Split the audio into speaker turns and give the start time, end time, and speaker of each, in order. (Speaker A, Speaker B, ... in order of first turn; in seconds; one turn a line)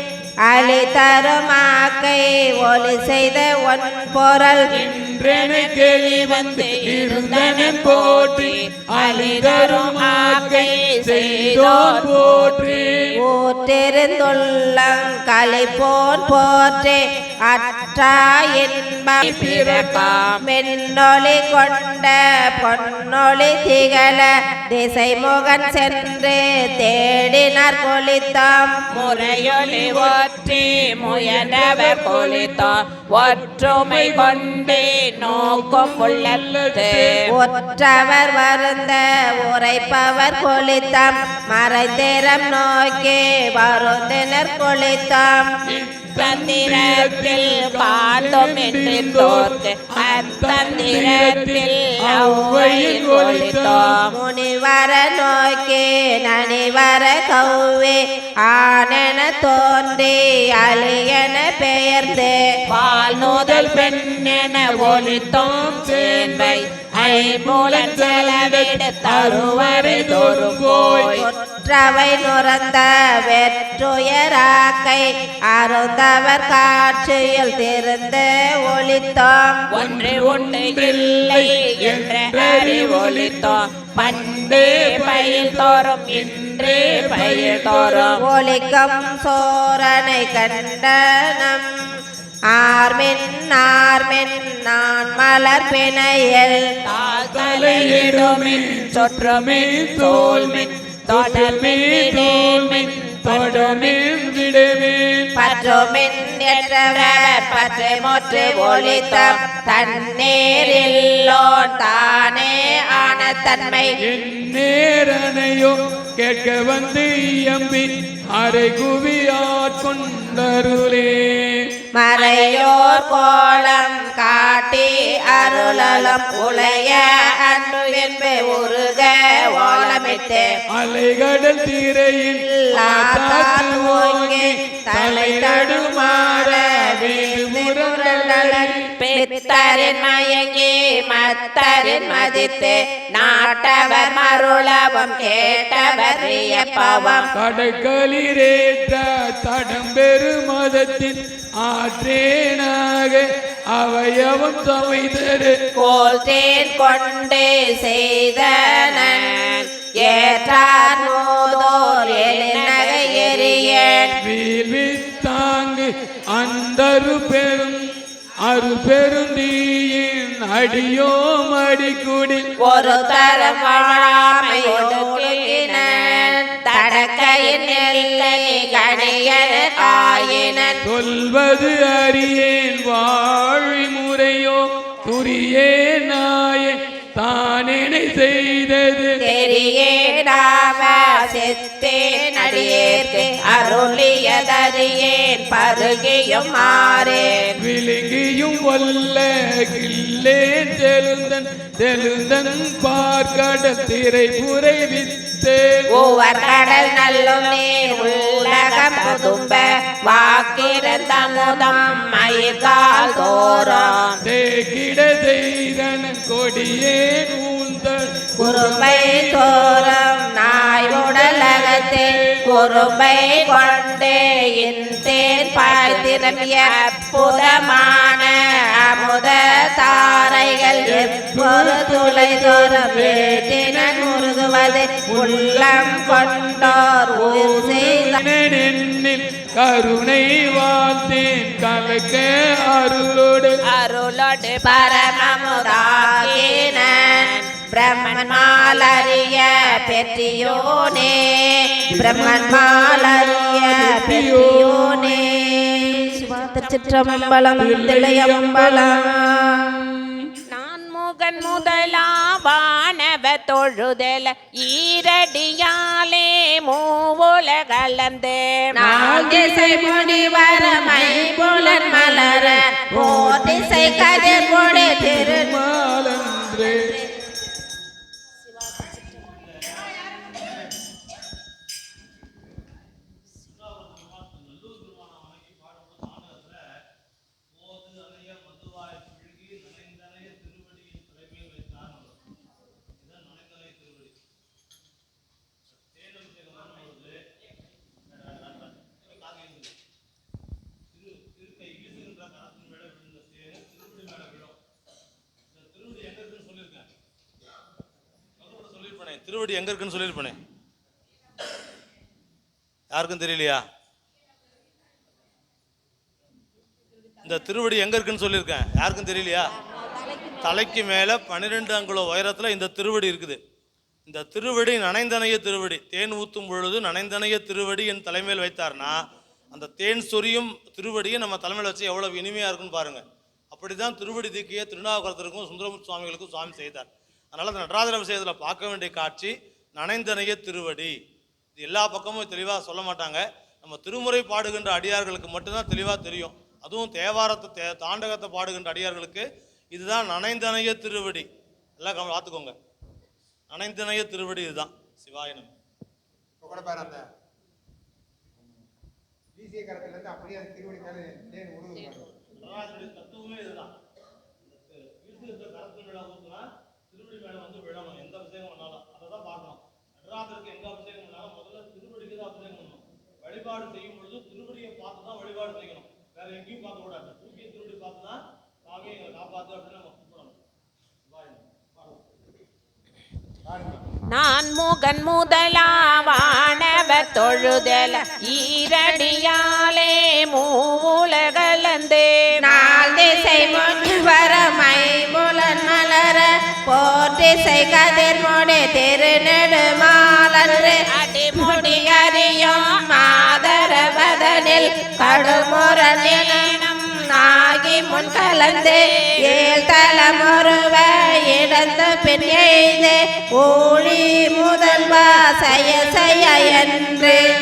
Speaker A: 0.5-4.7
Speaker B: 4.7-13.1
Speaker C: 5.2-13.1
Speaker A: 13.2-19.8
Speaker C: 19.2-20.4
Speaker A: 20.4-28.7
Speaker C: 28.9-37.2
Speaker B: 29.2-30.1
Speaker B: 30.9-32.6
Speaker B: 33.2-37.2
Speaker A: 37.3-45.5
Speaker B: 45.7-53.9
Speaker C: 46.2-54.1
Speaker A: 54.1-62.4
Speaker C: 62.7-71.3
Speaker B: 63.1-64.1
Speaker B: 64.6-71.1
Speaker A: 71.1-79.6
Speaker C: 79.7-88.2
Speaker B: 79.8-88.2
Speaker A: 88.2-91.8
Speaker A: 92.5-96.6
Speaker C: 96.8-104.0
Speaker B: 97.1-105.3
Speaker A: 105.3-114.0
Speaker C: 105.4-109.3
Speaker B: 114.0-121.7
Speaker A: 122.0-130.6
Speaker C: 122.2-122.5
Speaker C: 125.4-130.6
Speaker B: 130.7-138.8
Speaker A: 132.5-140.4
Speaker C: 139.0-147.3
Speaker A: 141.1-147.3
Speaker B: 147.3-155.6
Speaker A: 155.8-159.4
Speaker C: 158.7-164.2
Speaker A: 160.0-164.2
Speaker B: 164.2-167.8
Speaker B: 168.4-172.5
Speaker C: 172.6-180.7
Speaker A: 172.6-180.8
Speaker B: 180.8-189.2
Speaker A: 189.2-194.7
Speaker C: 189.2-190.2
Speaker C: 191.8-197.6
Speaker A: 196.1-197.3
Speaker B: 197.6-205.8
Speaker A: 205.9-213.9
Speaker C: 205.9-214.2
Speaker B: 214.2-220.0
Speaker A: 218.4-238.2
Speaker B: 220.6-222.4
Speaker C: 223.2-227.7
Speaker B: 230.8-243.6
Speaker C: 243.6-249.2
Speaker A: 244.6-259.8
Speaker B: 251.9-255.2
Speaker B: 257.5-259.2
Speaker C: 260.5-268.8
Speaker A: 268.7-275.6
Speaker B: 268.8-269.9
Speaker B: 271.7-277.0
Speaker D: 279.2-280.6
Speaker D: 283.4-286.7
Speaker D: 287.5-292.2
Speaker D: 293.0-294.2
Speaker D: 295.7-297.2
Speaker D: 298.1-299.8
Speaker D: 300.9-304.6
Speaker D: 305.5-306.9
Speaker D: 308.4-310.4
Speaker D: 312.9-313.6
Speaker D: 317.2-319.5
Speaker D: 320.4-323.4
Speaker D: 324.1-341.0
Speaker D: 341.6-352.6
Speaker D: 353.5-355.5
Speaker E: 356.4-357.1
Speaker E: 359.4-362.1
Speaker C: 361.8-362.0
Speaker D: 362.3-363.7
Speaker D: 364.4-380.4
Speaker D: 381.0-382.0
Speaker C: 384.1-392.4
Speaker A: 392.4-400.8
Speaker C: 400.9-402.8
Speaker A: 401.3-417.2
Speaker C: 403.5-409.3